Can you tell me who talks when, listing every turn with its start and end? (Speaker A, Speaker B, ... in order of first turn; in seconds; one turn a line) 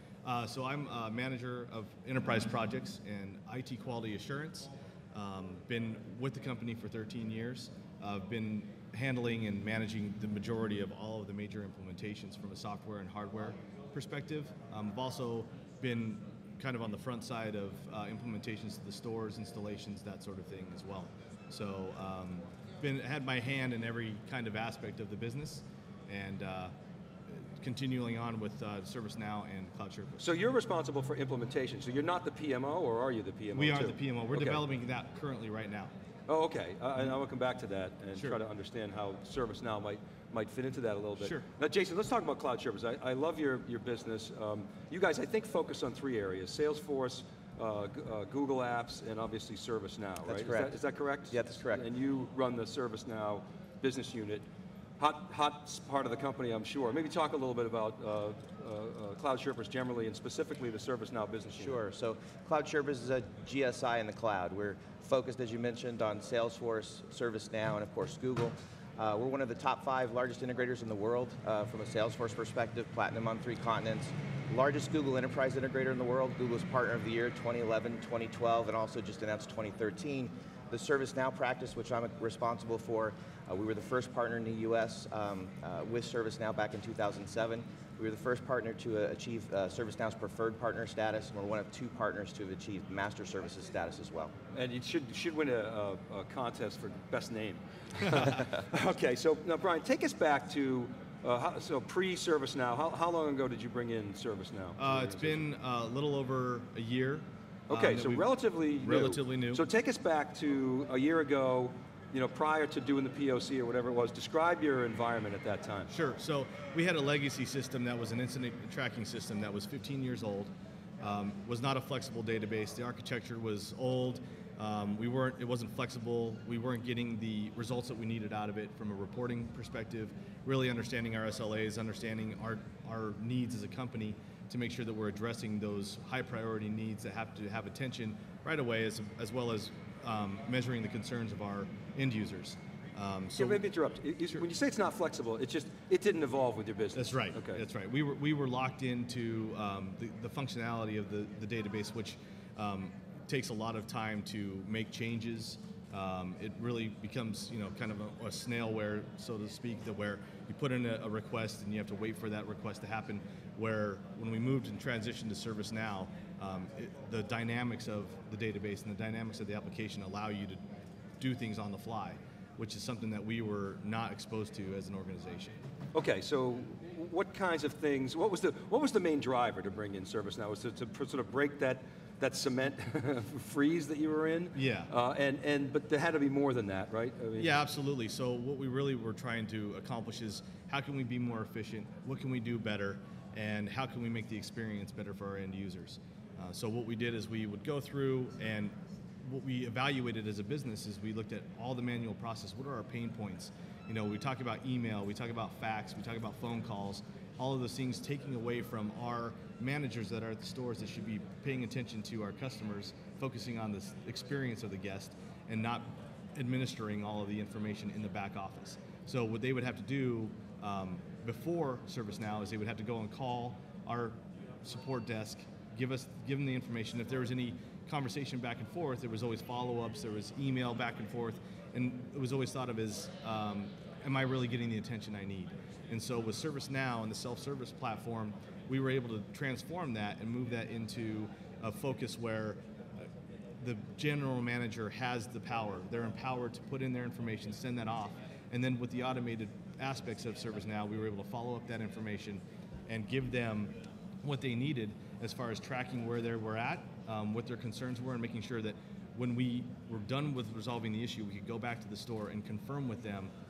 Speaker A: 0.2-26.7
Speaker A: 27.6-30.3
Speaker B: 30.2-34.6
Speaker A: 33.5-35.9
Speaker B: 36.3-54.4
Speaker A: 41.2-41.5
Speaker C: 50.3-51.8
Speaker B: 55.0-61.8
Speaker C: 61.6-94.3
Speaker B: 94.5-105.5
Speaker A: 104.8-109.7
Speaker B: 107.7-115.9
Speaker A: 115.9-143.7
Speaker B: 143.3-147.6
Speaker A: 146.9-170.6
Speaker A: 171.2-175.6
Speaker B: 175.9-187.6
Speaker A: 184.5-184.9
Speaker A: 187.4-242.6
Speaker A: 243.6-263.3